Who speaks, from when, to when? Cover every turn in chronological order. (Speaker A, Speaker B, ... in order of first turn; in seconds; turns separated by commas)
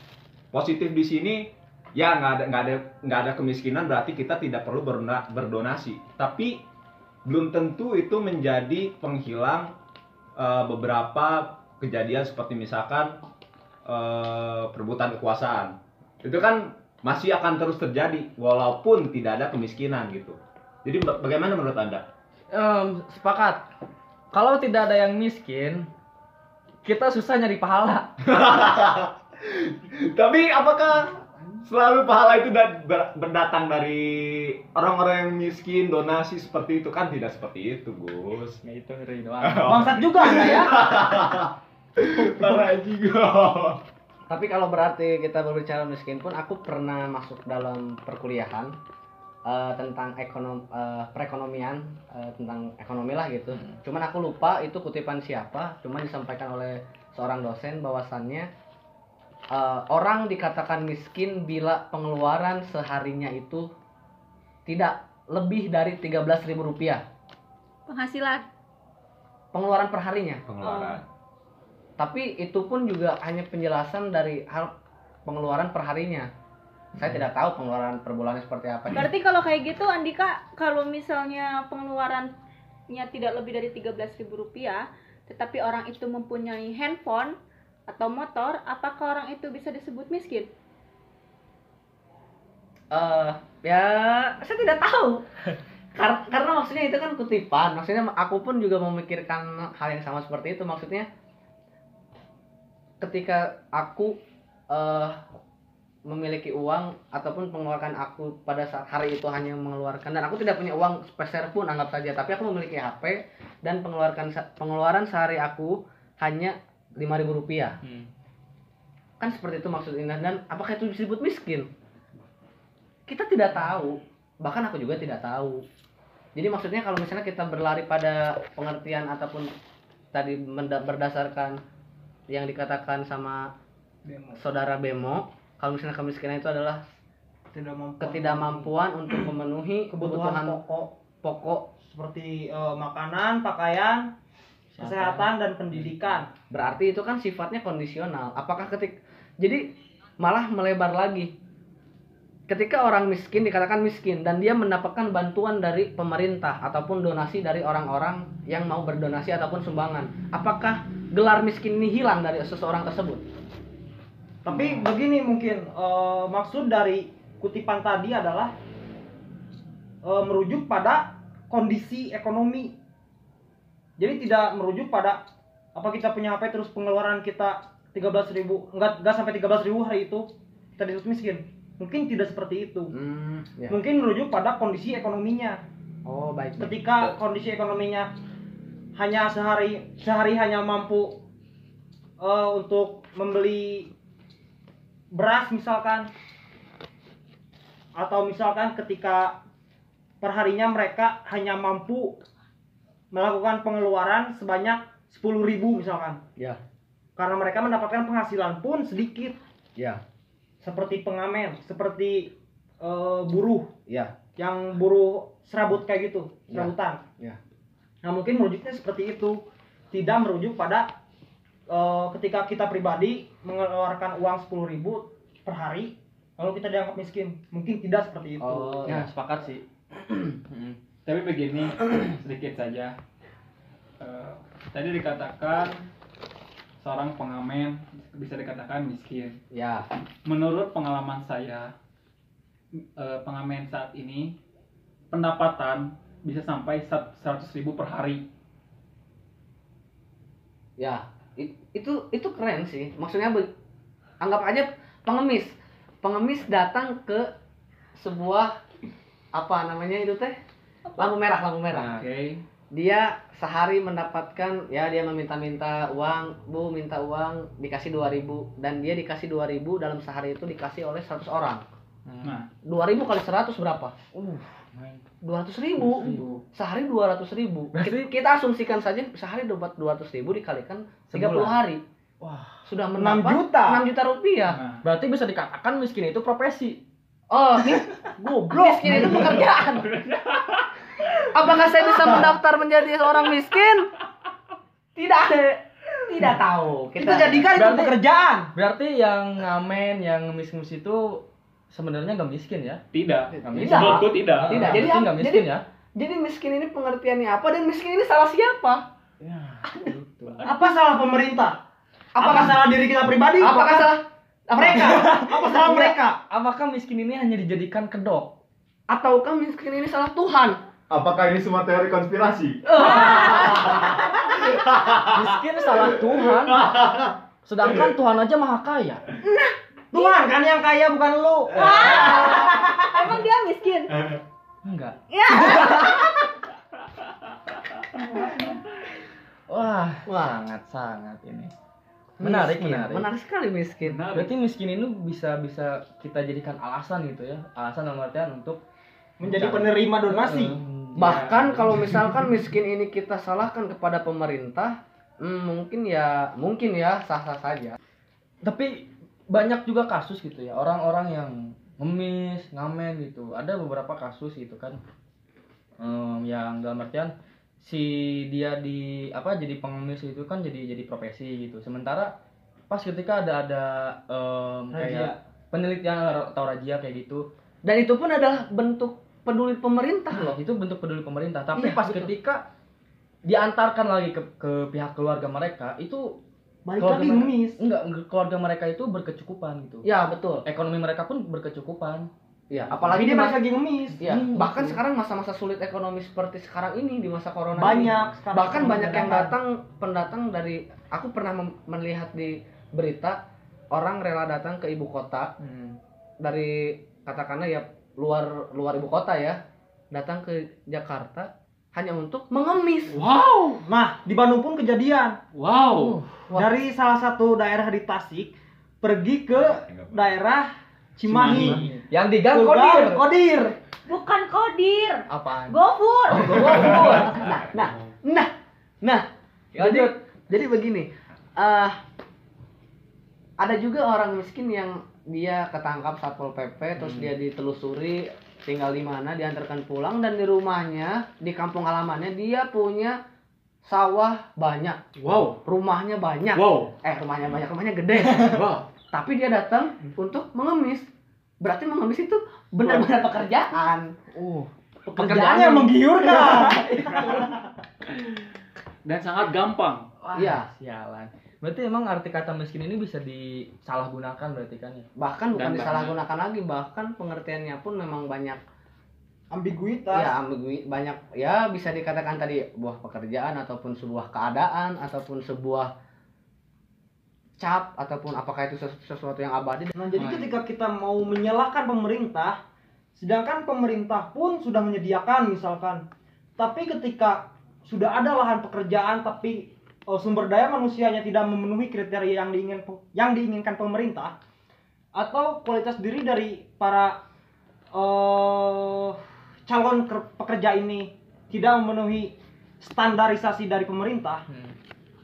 Speaker A: 0.5-6.6, Speaker A: 7.2-9.8, Speaker A: 10.4-13.2, Speaker A: 13.8-22.1, Speaker B: 22.5-23.6, Speaker B: 24.3-25.9, Speaker B: 26.8-28.1, Speaker A: 28.2-38.6, Speaker B: 38.6-39.9, Speaker A: 39.4-43.8, Speaker C: 39.6-40.9, Speaker D: 44.3-48.8, Speaker D: 49.5-58.5, Speaker D: 59.5-63.7, Speaker D: 64.7-67.0, Speaker E: 67.9-68.5, Speaker D: 69.5-70.4, Speaker A: 70.5-71.0, Speaker E: 70.6-71.0, Speaker D: 72.0-74.7, Speaker D: 75.2-76.3, Speaker D: 77.0-79.1, Speaker E: 78.9-82.3, Speaker E: 82.9-87.4, Speaker E: 87.9-90.5, Speaker D: 92.9-95.2, Speaker D: 95.9-101.1, Speaker D: 103.0-104.2, Speaker D: 104.7-105.2, Speaker D: 106.0-117.8, Speaker B: 117.8-118.1, Speaker D: 119.2-121.7, Speaker D: 123.1-125.6, Speaker D: 126.4-129.5, Speaker D: 130.1-131.6, Speaker D: 132.3-133.5, Speaker C: 134.0-134.4, Speaker D: 134.3-136.8, Speaker C: 137.5-138.7, Speaker D: 138.0-140.6, Speaker C: 139.9-140.9, Speaker D: 141.2-141.7, Speaker C: 141.8-144.1, Speaker B: 144.8-146.2, Speaker C: 144.8-146.3, Speaker D: 146.5-151.3, Speaker D: 152.5-163.2, Speaker C: 164.4-168.5, Speaker C: 170.0-172.8, Speaker C: 174.0-175.2, Speaker C: 175.7-182.9, Speaker D: 182.9-183.8, Speaker C: 183.7-185.6, Speaker D: 186.1-186.8, Speaker C: 186.6-188.1, Speaker C: 188.9-191.2, Speaker C: 192.2-193.9, Speaker C: 195.1-196.1, Speaker C: 197.9-199.4, Speaker C: 200.2-202.2, Speaker C: 203.1-206.2, Speaker C: 207.2-209.4, Speaker C: 210.6-213.7, Speaker D: 213.9-214.1, Speaker C: 214.4-217.0, Speaker D: 216.5-217.4, Speaker C: 218.0-220.9, Speaker C: 221.7-228.9, Speaker D: 228.4-229.1, Speaker B: 228.8-230.8, Speaker F: 231.1-232.9, Speaker F: 234.0-235.8, Speaker F: 236.8-239.4, Speaker D: 239.5-239.9, Speaker F: 240.2-241.7, Speaker F: 243.0-244.3, Speaker F: 245.1-248.2, Speaker D: 250.8-253.5, Speaker D: 254.2-257.3, Speaker D: 257.9-258.6, Speaker D: 259.3-260.4, Speaker D: 261.0-261.9, Speaker B: 261.7-262.1, Speaker F: 261.9-262.4, Speaker D: 262.7-271.6, Speaker B: 272.1-272.3, Speaker F: 272.2-272.5, Speaker D: 272.6-273.9, Speaker B: 274.1-275.0, Speaker D: 275.2-281.8, Speaker B: 275.8-276.4, Speaker B: 277.7-278.1, Speaker B: 281.1-281.6, Speaker B: 282.2-282.6, Speaker D: 282.6-284.6, Speaker C: 283.0-283.8, Speaker F: 284.5-284.9, Speaker B: 284.8-286.8, Speaker D: 287.3-287.9, Speaker C: 288.2-289.4, Speaker D: 288.5-290.1, Speaker F: 290.0-290.5, Speaker D: 291.2-293.9, Speaker D: 294.9-297.5, Speaker C: 297.0-298.5, Speaker B: 297.5-298.0, Speaker B: 298.5-302.8, Speaker F: 302.9-304.9, Speaker B: 303.4-305.6, Speaker D: 303.5-308.9, Speaker B: 309.2-310.5, Speaker D: 309.6-310.0, Speaker C: 310.4-311.6, Speaker D: 312.1-312.6, Speaker C: 312.2-314.0, Speaker D: 313.4-315.9, Speaker C: 314.5-316.2, Speaker B: 316.3-318.4, Speaker D: 318.9-320.6, Speaker A: 320.9-327.8, Speaker D: 322.7-323.8, Speaker B: 322.8-323.4, Speaker E: 322.8-323.5, Speaker B: 325.0-326.8, Speaker B: 327.4-329.1, Speaker E: 329.2-330.1, Speaker C: 329.9-332.3, Speaker E: 331.5-334.1, Speaker B: 334.6-335.8, Speaker E: 335.1-336.2, Speaker B: 339.5-341.5, Speaker D: 340.1-340.4, Speaker D: 342.2-344.0, Speaker B: 342.2-343.1, Speaker F: 343.8-344.3, Speaker B: 344.1-348.6, Speaker C: 349.2-350.6, Speaker B: 349.2-352.0, Speaker D: 350.9-357.8, Speaker B: 358.4-364.8, Speaker B: 365.8-372.1, Speaker B: 372.7-377.3, Speaker C: 374.7-375.2, Speaker D: 377.6-380.4, Speaker B: 380.1-382.4, Speaker C: 381.6-382.1, Speaker B: 383.2-386.2, Speaker C: 386.6-387.6, Speaker B: 386.8-389.9, Speaker D: 389.8-390.4, Speaker B: 390.4-392.1, Speaker D: 392.5-393.4, Speaker C: 392.8-394.0, Speaker B: 394.0-394.8, Speaker D: 394.0-403.2, Speaker C: 397.6-399.4, Speaker D: 403.7-405.3, Speaker D: 406.2-413.0, Speaker F: 412.9-413.6, Speaker C: 413.6-415.2, Speaker F: 415.3-416.0, Speaker D: 415.7-416.5, Speaker C: 416.3-421.6, Speaker A: 419.4-420.2, Speaker F: 421.1-421.5, Speaker B: 421.1-423.0, Speaker C: 422.2-423.6, Speaker E: 423.9-427.0, Speaker B: 425.1-425.6, Speaker B: 426.1-426.9, Speaker D: 426.2-431.8, Speaker A: 427.0-427.9, Speaker B: 429.6-429.9, Speaker D: 433.4-443.0, Speaker B: 436.8-437.1, Speaker D: 443.6-444.8, Speaker F: 444.9-445.4, Speaker D: 445.4-450.9, Speaker F: 446.3-446.7, Speaker F: 448.1-448.7, Speaker D: 451.4-454.0, Speaker B: 454.1-457.1, Speaker C: 454.9-457.1, Speaker F: 457.9-458.2, Speaker F: 458.9-459.9, Speaker B: 460.0-464.9, Speaker D: 460.1-460.5, Speaker D: 465.0-468.4, Speaker F: 465.4-465.9, Speaker C: 469.3-470.1, Speaker D: 469.9-475.7, Speaker D: 477.4-479.7, Speaker C: 479.8-482.4, Speaker B: 479.9-480.3, Speaker C: 482.9-485.9, Speaker C: 486.4-494.1, Speaker C: 494.9-497.0, Speaker C: 497.7-504.2, Speaker B: 504.3-504.6